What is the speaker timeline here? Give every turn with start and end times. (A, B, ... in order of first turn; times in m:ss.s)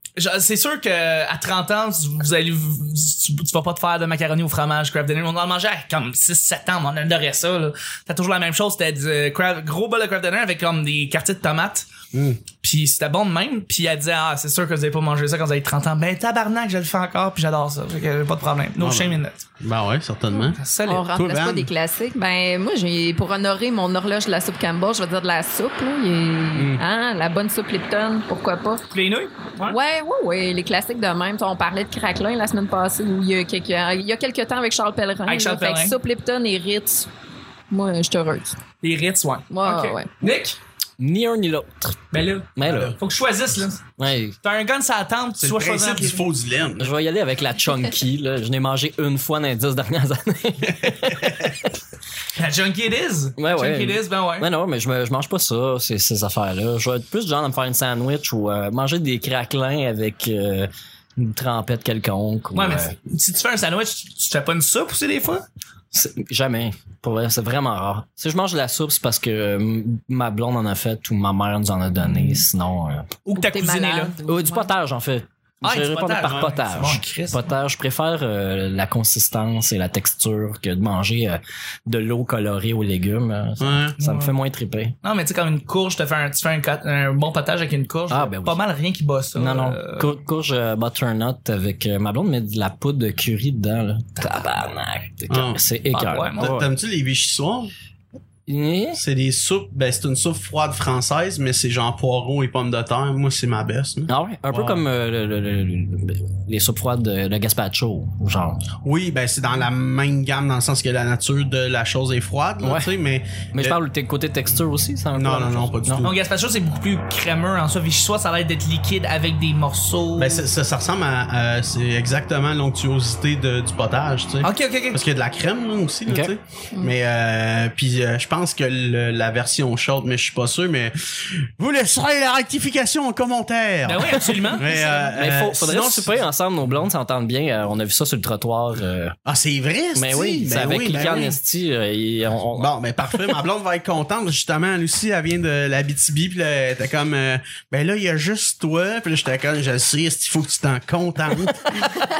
0:00.2-0:11.9 A
0:12.1-0:12.4 B
0:12.6-0:19.4 A
0:18.8-0:21.7 B
0:20.3-0:28.9 C
0:20.6-0:21.0 A
0:26.6-0:26.8 B
0:28.9-0:29.8 A
0:29.7-0:37.1 C
0:35.2-0:36.0 A
0:37.7-0:38.6 C
0:38.8-0:40.6 A
0:39.5-0:40.1 C
0:41.0-0:42.9 D
0:42.1-0:43.8 A
0:42.6-0:43.0 B
0:44.0-0:44.4 D
0:44.4-0:46.2 A
0:45.4-0:46.9 B
0:46.8-0:51.6 D
0:50.8-0:51.5 B
0:52.3-0:54.5 A
0:53.4-1:02.9 D
1:02.5-1:05.4 A
1:05.9-1:13.2 D
1:13.2-1:14.1 A
1:13.3-1:14.7 C
1:14.2-1:24.9 D
1:15.6-1:17.5 A
1:23.6-1:24.0 B
1:24.0-1:24.3 A
1:25.0-1:30.1 A
1:28.1-1:28.6 D
1:29.3-1:36.7 D
1:35.3-1:35.6 B
1:35.9-1:36.6 A
1:36.4-1:37.7 B
1:38.5-1:39.0 D
1:38.9-1:44.8 B
1:44.1-1:48.6 D
1:48.8-1:53.8 B
1:52.6-1:52.9 D
1:53.5-1:56.1 D
1:55.1-1:56.2 B
1:56.0-2:00.4 A
2:00.2-2:16.2 B
2:04.4-2:05.0 A
2:06.1-2:06.3 D
2:13.8-2:14.7 A
2:14.7-2:15.1 C
2:15.1-2:19.1 D
2:19.2-2:21.4 B
2:20.0-2:23.3 D
2:22.6-2:31.9 B